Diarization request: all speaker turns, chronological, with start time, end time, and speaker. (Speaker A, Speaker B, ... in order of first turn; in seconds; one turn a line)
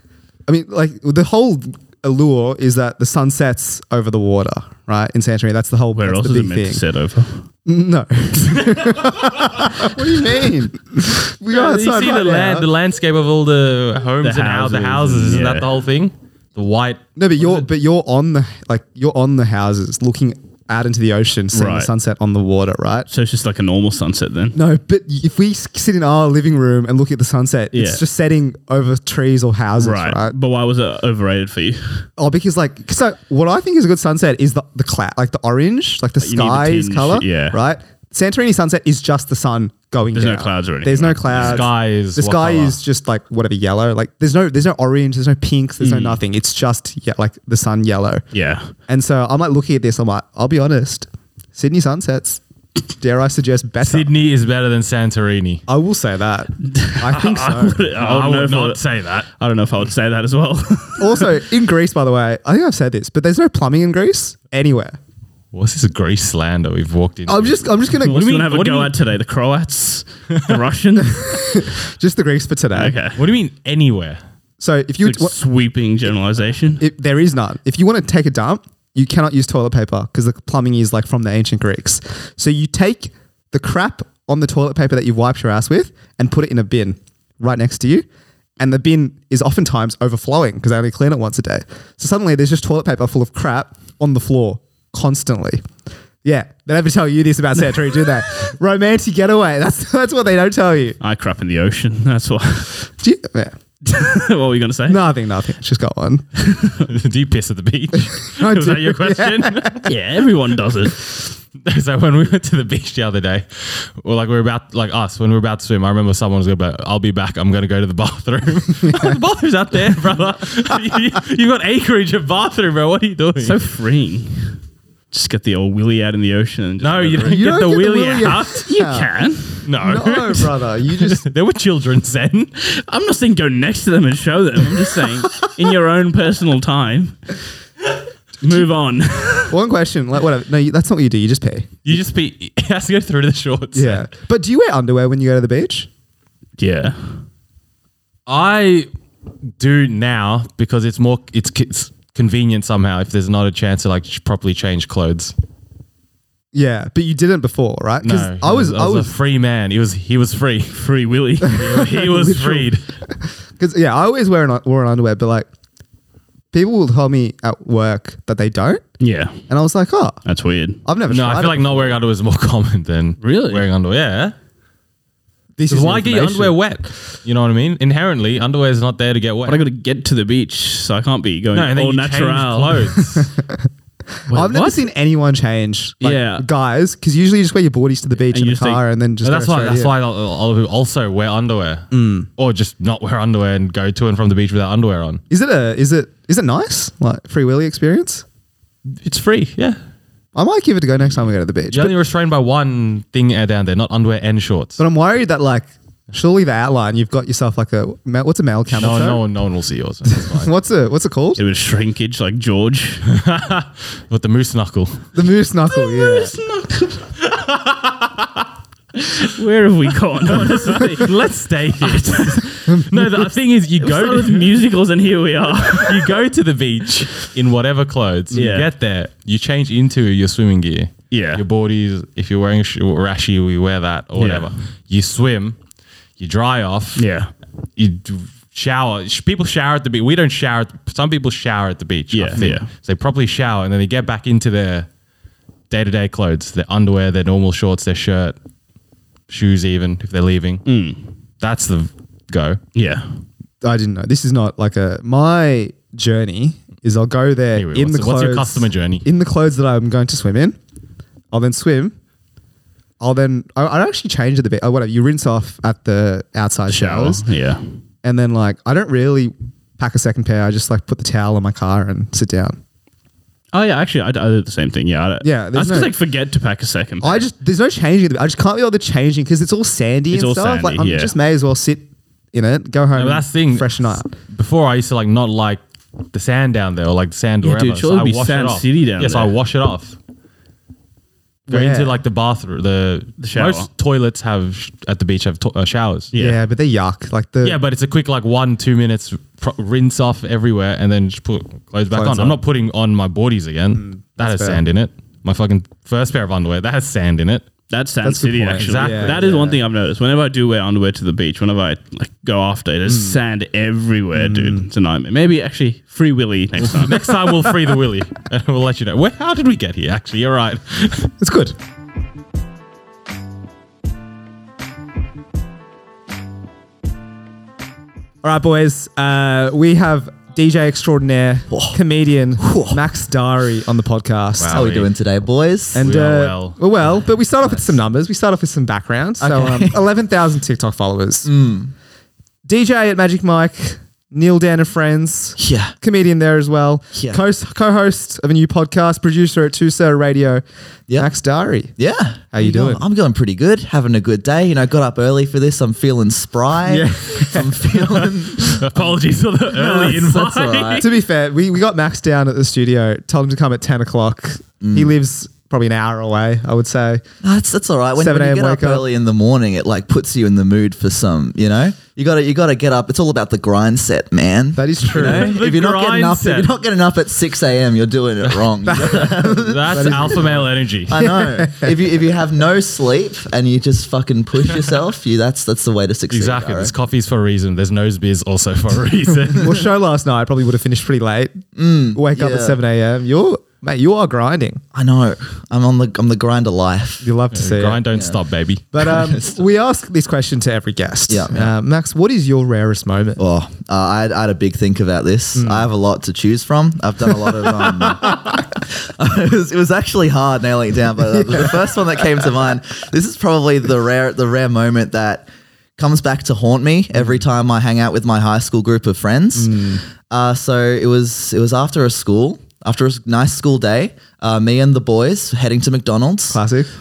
Speaker A: 0.5-6.8
Speaker B: 6.0-7.5
Speaker A: 7.7-12.7
Speaker C: 8.6-9.1
Speaker C: 11.5-17.6
Speaker B: 14.2-15.7
Speaker A: 17.2-23.1
Speaker B: 21.5-21.9
Speaker B: 23.1-24.6
Speaker A: 24.5-30.4
Speaker B: 27.7-28.0
Speaker B: 29.8-32.1
Speaker A: 32.2-48.3
Speaker B: 36.2-37.6
Speaker B: 40.1-41.7
Speaker C: 41.4-42.8
Speaker B: 45.8-46.2
Speaker B: 48.3-48.7
Speaker A: 48.9-52.4
Speaker A: 53.0-54.1
Speaker C: 53.8-55.6
Speaker A: 55.7-57.9
Speaker B: 56.6-57.0
Speaker C: 57.1-59.3
Speaker B: 57.6-58.8
Speaker B: 59.4-61.3
Speaker A: 61.0-65.0
Speaker C: 65.5-68.9
Speaker A: 67.3-68.3
Speaker B: 68.0-71.3
Speaker A: 71.0-73.0
Speaker B: 72.7-73.2
Speaker C: 73.2-74.2
Speaker A: 74.6-75.4
Speaker B: 75.0-76.8
Speaker A: 76.8-88.0
Speaker A: 88.6-95.6
Speaker A: 96.2-101.0
Speaker B: 101.0-102.7
Speaker A: 103.0-103.5
Speaker B: 103.8-105.0
Speaker A: 104.9-106.2
Speaker B: 106.4-106.8
Speaker C: 106.9-109.8
Speaker A: 108.0-109.8
Speaker B: 109.8-111.0
Speaker C: 111.6-123.6
Speaker A: 118.9-119.2
Speaker B: 123.3-124.6
Speaker B: 125.1-127.5
Speaker C: 126.8-128.7
Speaker A: 127.2-129.1
Speaker B: 128.7-129.7
Speaker C: 129.7-132.5
Speaker A: 129.8-131.3
Speaker B: 132.7-137.3
Speaker B: 138.4-139.5
Speaker A: 139.5-141.7
Speaker C: 141.8-144.1
Speaker A: 143.7-145.9
Speaker B: 146.6-147.2
Speaker C: 148.3-148.9
Speaker C: 149.6-155.3
Speaker A: 156.5-159.1
Speaker C: 158.0-160.8
Speaker B: 160.7-161.7
Speaker C: 161.5-162.8
Speaker A: 161.6-165.5
Speaker A: 166.5-168.9
Speaker B: 169.0-169.4
Speaker A: 169.5-170.2
Speaker B: 170.2-170.8
Speaker A: 170.8-172.0
Speaker C: 171.1-174.3
Speaker B: 173.2-173.6
Speaker A: 175.6-176.6
Speaker C: 175.7-179.6
Speaker B: 179.5-182.8
Speaker C: 181.5-183.3
Speaker A: 183.2-183.5
Speaker A: 184.3-189.9
Speaker B: 184.3-184.8
Speaker B: 186.0-186.5
Speaker B: 188.3-188.8
Speaker C: 189.2-195.2
Speaker A: 191.9-192.3
Speaker A: 195.3-198.2
Speaker C: 199.1-199.8
Speaker B: 199.1-199.5
Speaker A: 200.3-201.9
Speaker C: 201.7-204.8
Speaker A: 204.8-209.2
Speaker C: 208.7-210.5
Speaker A: 210.1-211.4
Speaker B: 211.4-213.1
Speaker C: 213.1-215.1
Speaker A: 215.1-216.3
Speaker B: 215.7-217.1
Speaker C: 217.3-218.3
Speaker B: 219.1-221.2
Speaker C: 220.3-224.6
Speaker B: 221.8-222.4
Speaker B: 223.8-226.1
Speaker C: 225.7-235.6
Speaker B: 228.3-228.7
Speaker B: 231.1-231.4
Speaker B: 234.2-234.5
Speaker C: 236.2-237.1
Speaker B: 237.0-237.3
Speaker C: 237.8-244.9
Speaker B: 242.1-242.7
Speaker C: 245.7-248.4
Speaker C: 249.3-250.7
Speaker B: 250.7-251.0
Speaker C: 251.4-252.6
Speaker B: 252.8-253.1
Speaker A: 253.6-260.6
Speaker C: 257.6-259.0
Speaker A: 261.3-261.9
Speaker A: 263.0-267.2
Speaker B: 266.7-267.6
Speaker A: 268.0-272.6
Speaker B: 273.5-277.3
Speaker A: 275.2-275.9
Speaker A: 277.0-284.1
Speaker B: 280.1-281.1
Speaker C: 282.9-285.6
Speaker C: 286.1-290.0
Speaker B: 287.4-289.3
Speaker A: 291.5-291.9
Speaker C: 291.5-296.1
Speaker B: 293.2-293.7
Speaker B: 296.1-296.4
Speaker A: 296.2-297.6
Speaker C: 297.4-307.5
Speaker A: 301.9-302.4
Speaker A: 303.7-304.6
Speaker B: 307.7-317.0
Speaker A: 308.0-309.6
Speaker C: 308.5-309.3
Speaker A: 312.9-313.2
Speaker A: 314.1-314.7
Speaker C: 316.7-321.1
Speaker A: 321.2-321.6
Speaker A: 328.2-334.7
Speaker D: 331.5-331.8
Speaker D: 332.4-332.8
Speaker C: 334.4-334.9
Speaker D: 334.5-335.9
Speaker A: 335.7-341.3
Speaker C: 335.8-336.6
Speaker D: 339.2-339.8
Speaker D: 341.2-341.7
Speaker A: 342.4-350.4
Speaker D: 345.4-345.7
Speaker D: 346.9-347.2
Speaker A: 351.0-351.7
Speaker D: 351.8-360.9
Speaker A: 352.3-352.8
Speaker A: 356.7-358.0
Speaker C: 358.4-360.9
Speaker A: 360.8-367.0
Speaker D: 364.6-364.9
Speaker D: 367.2-386.7
Speaker A: 368.0-368.9
Speaker A: 374.6-375.4
Speaker C: 374.9-376.5
Speaker C: 378.2-381.1
Speaker A: 378.6-380.4
Speaker A: 380.9-381.9
Speaker C: 386.1-389.6
Speaker A: 389.4-391.4
Speaker D: 391.6-392.6
Speaker A: 391.9-394.6
Speaker D: 394.7-397.1
Speaker A: 397.0-397.8
Speaker C: 397.3-398.9
Speaker A: 398.7-403.2
Speaker D: 398.9-399.4
Speaker D: 401.1-401.5
Speaker D: 403.2-426.4
Speaker A: 405.4-405.7
Speaker A: 407.5-408.4
Speaker A: 411.1-411.6
Speaker A: 419.4-419.8
Speaker A: 426.3-426.7